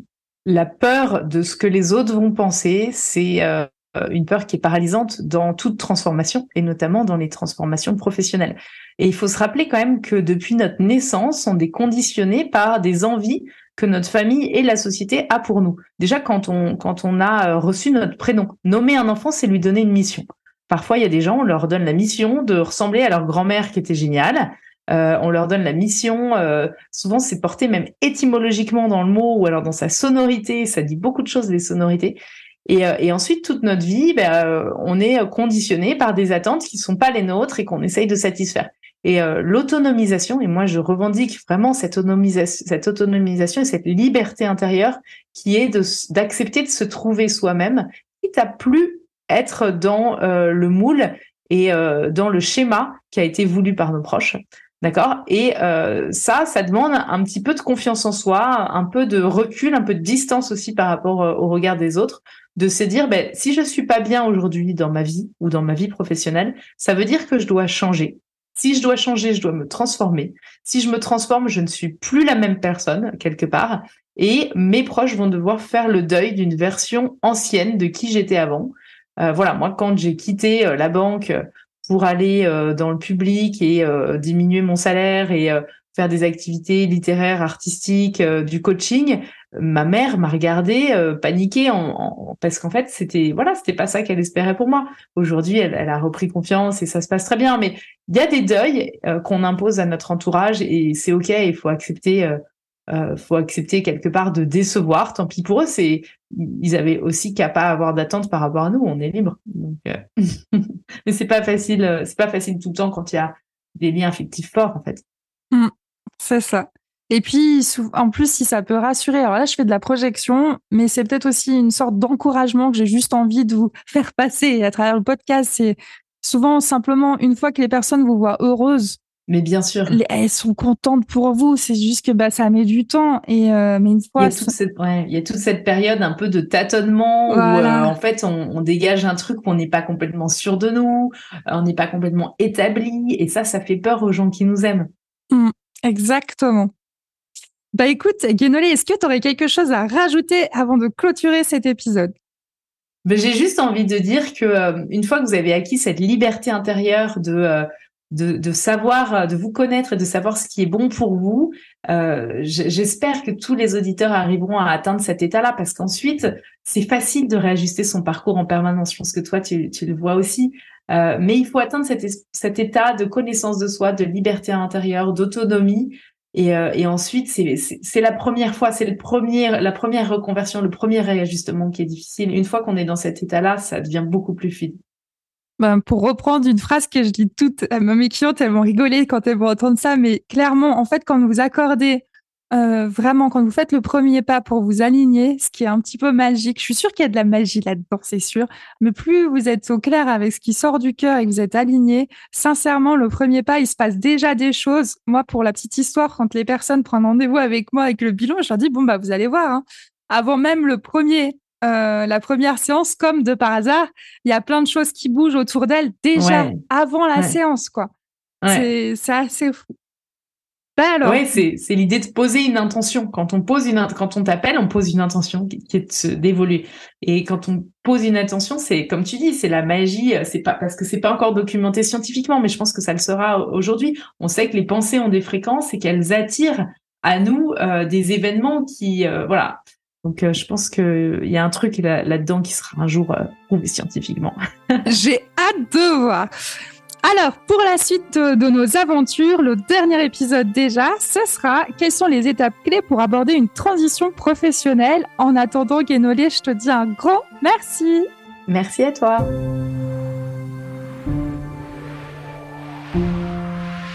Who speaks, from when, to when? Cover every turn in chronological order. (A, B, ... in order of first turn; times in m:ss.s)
0:00.4-1:42.4 A
1:42.9-1:55.0 A
1:55.5-2:09.0 B
2:09.3-2:10.0 A
2:09.9-2:14.5 B
2:14.2-2:24.9 A
2:17.3-2:17.9 B
2:25.3-2:26.7 B
2:27.7-2:32.1 B
2:33.0-3:04.8 A
3:05.6-3:37.9 B
3:36.1-3:36.6 A
3:38.4-3:38.7 A
3:38.5-3:39.7 B
3:40.8-3:41.4 B
3:41.0-4:04.8 A
4:04.8-4:06.3 B
4:07.0-4:18.0 B
4:18.5-4:19.3 A